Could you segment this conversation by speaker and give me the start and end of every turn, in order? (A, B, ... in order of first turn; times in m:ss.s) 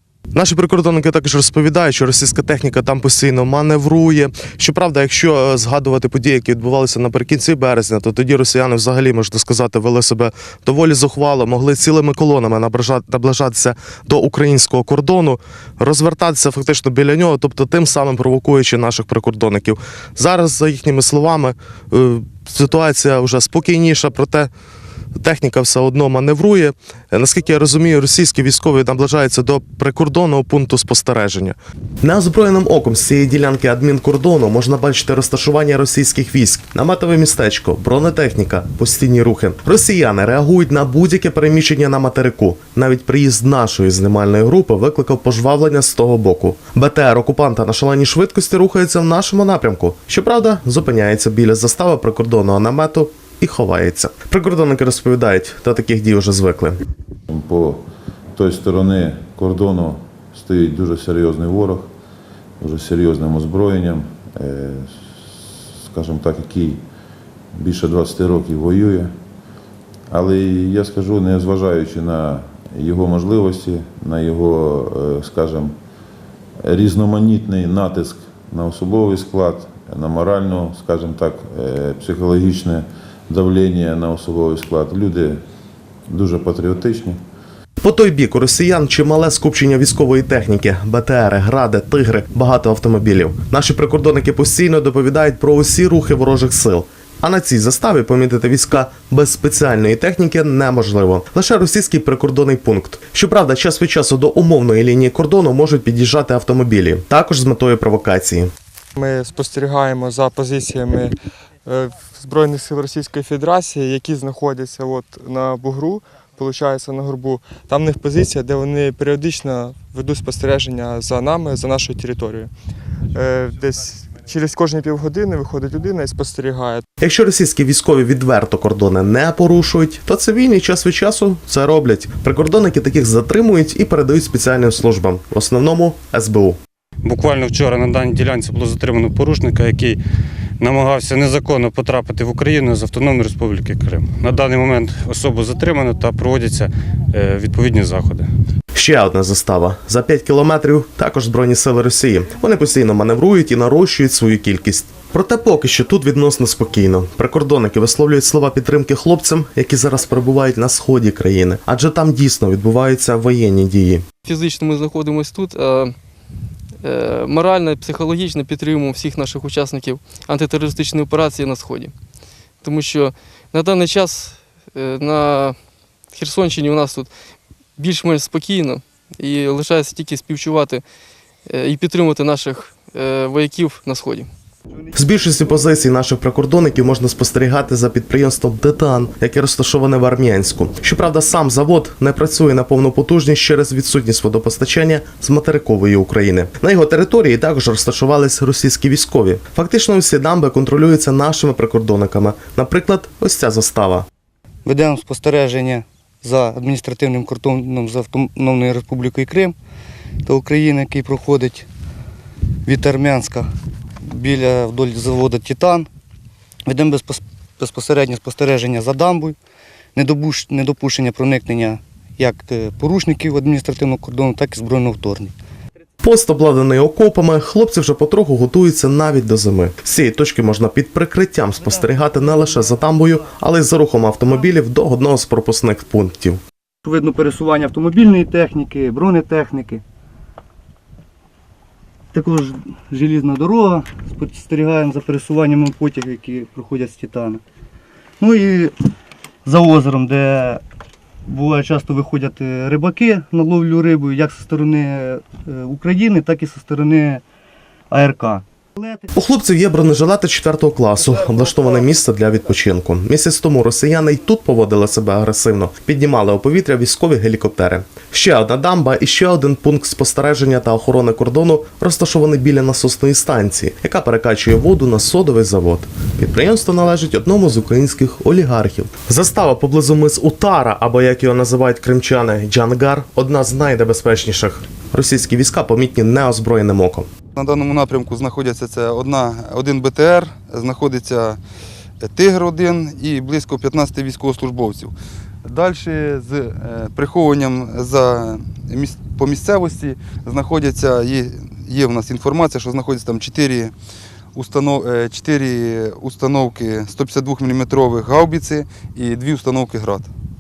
0:00.3-0:24.5 A
0:25.2-0:56.8 A
0:57.3-0:57.8 B
0:58.4-1:01.9 B
1:02.6-1:06.8 B
1:07.6-1:09.1 B
1:10.1-1:15.7 B
1:16.6-1:25.4 B
1:26.1-1:27.2 B
1:27.8-1:48.5 A
1:49.0-1:51.2 C
1:51.7-2:02.5 C
2:03.1-2:06.8 C
2:07.0-2:16.6 A
2:17.0-2:20.0 D
2:20.6-2:28.3 D
2:28.8-2:44.0 A
2:44.2-2:46.0 E
2:46.8-2:51.9 E
2:52.6-2:55.6 E
2:56.1-2:57.1 E
2:57.8-3:00.8 E
3:01.5-3:04.3 E
3:05.0-3:24.1 A
3:24.6-3:29.6 F
3:30.2-3:31.7 F
3:32.7-3:33.5 F
3:34.0-3:35.9 F
3:36.7-3:39.4 F
3:40.0-3:45.3 F
3:46.0-3:56.4 A
3:56.8-3:59.8 F
4:02.1-4:07.4 F
4:08.2-4:08.8 F
4:09.5-4:10.6 F
4:11.3-4:17.2 F
4:17.9-4:19.1 F
4:19.2-4:47.1 A
4:47.4-4:51.4 G
4:52.0-4:54.9 G
4:55.4-5:03.7 G
5:04.4-5:10.1 G